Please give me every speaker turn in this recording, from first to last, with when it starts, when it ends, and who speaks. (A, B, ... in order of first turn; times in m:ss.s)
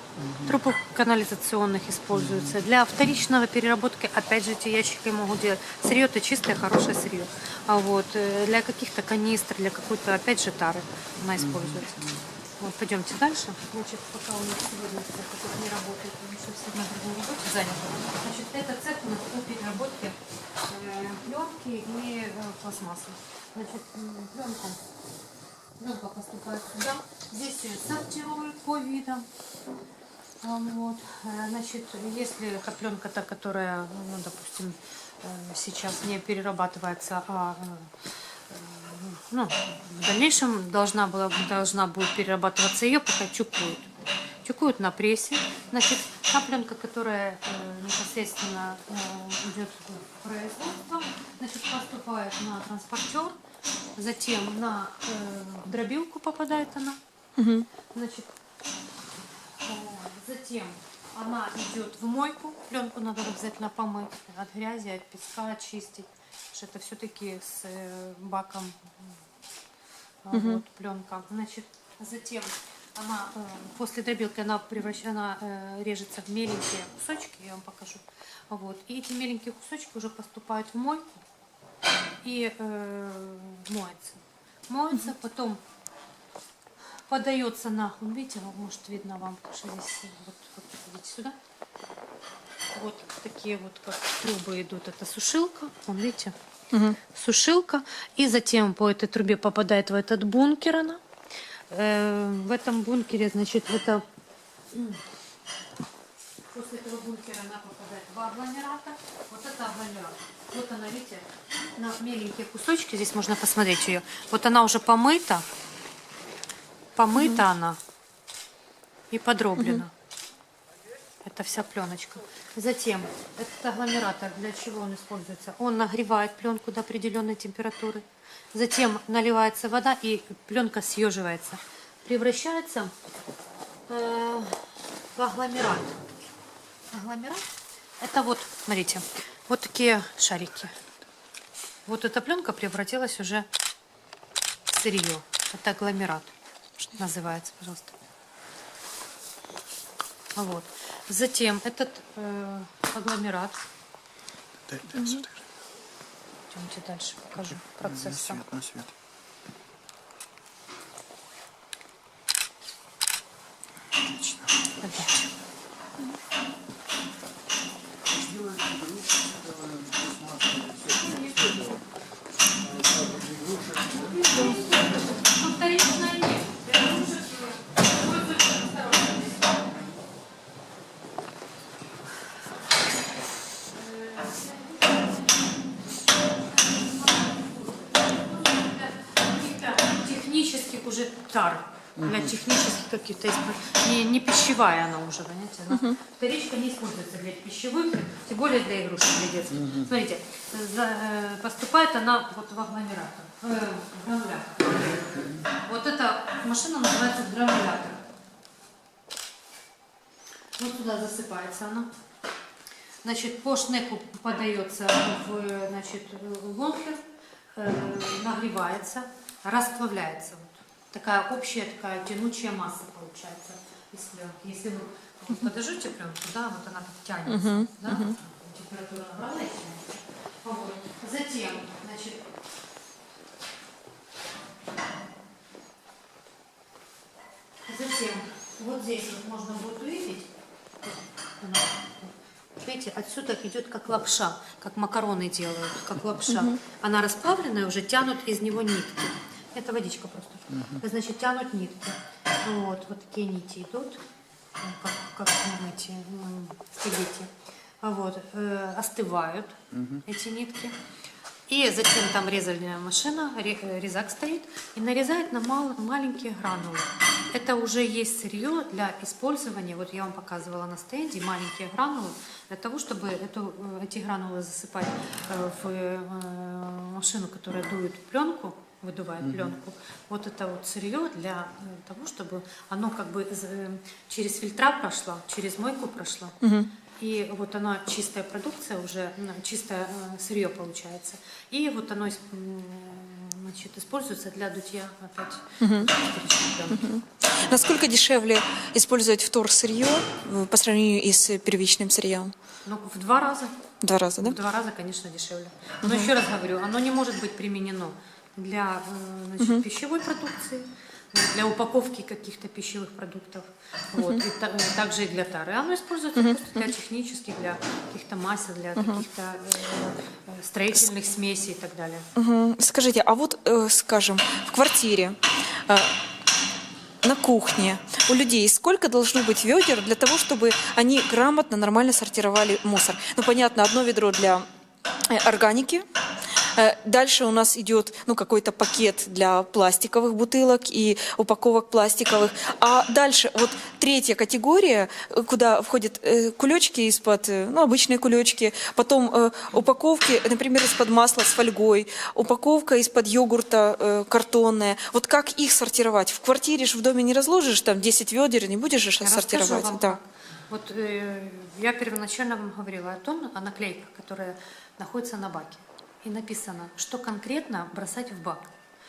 0:00.2-0:00.5 A
0:00.4-0:24.8 B
0:11.4-0:12.2 A
0:25.8-0:29.3 B
0:30.4-0:43.9 B
0:44.4-0:53.4 B
0:54.0-0:57.0 B
0:57.4-0:57.7 C
0:57.9-0:58.3 B
0:59.6-1:09.1 B
1:10.2-1:21.1 B
1:10.3-1:10.6 C
1:22.2-1:25.6 B
1:27.1-1:31.4 B
1:32.7-1:36.4 B
1:36.7-1:37.0 C
1:37.1-1:41.0 B
1:41.7-1:44.0 B
1:44.7-1:45.0 B
1:46.5-1:55.4 B
1:57.0-1:57.8 B
1:59.1-1:59.9 B
1:59.6-1:59.8 C
2:01.2-2:12.9 B
2:13.9-2:16.0 B
2:16.9-2:17.4 B
2:18.0-2:20.7 B
2:21.8-2:23.5 B
2:24.7-2:26.3 B
2:26.9-2:27.9 B
2:30.4-2:33.6 B
2:34.7-2:35.4 A
2:35.0-2:35.2 C
2:36.5-2:38.4 B
2:37.4-2:38.9 A
2:43.9-2:44.7 A
2:44.8-2:45.3 B
2:48.1-2:51.8 A
2:51.0-2:51.6 B
2:52.6-2:54.3 A
2:54.0-2:59.7 B
3:03.7-3:05.1 B
3:06.4-3:28.0 B
3:12.0-3:12.2 A
3:15.7-3:16.0 C
3:30.6-3:31.9 B
3:33.0-3:37.0 B
3:37.5-3:52.2 B
3:47.3-3:48.1 C
3:57.6-4:00.3 B
4:00.8-4:14.0 B
4:06.3-4:06.6 C
4:10.5-4:10.8 A
4:14.6-4:20.8 B
4:19.7-4:20.0 A
4:21.5-4:46.4 B
4:39.2-4:39.5 A
4:46.4-4:46.7 C
4:47.0-4:57.8 B
4:55.6-4:55.9 C
4:56.7-5:02.3 C
5:02.6-5:03.5 B
5:03.8-5:04.4 C
5:04.2-5:22.1 B
5:05.8-5:06.1 C
5:09.4-5:09.6 C
5:18.8-5:19.0 C
5:22.1-5:25.9 C
5:27.0-5:34.4 C
5:35.1-6:00.0 C
5:59.0-6:08.5 B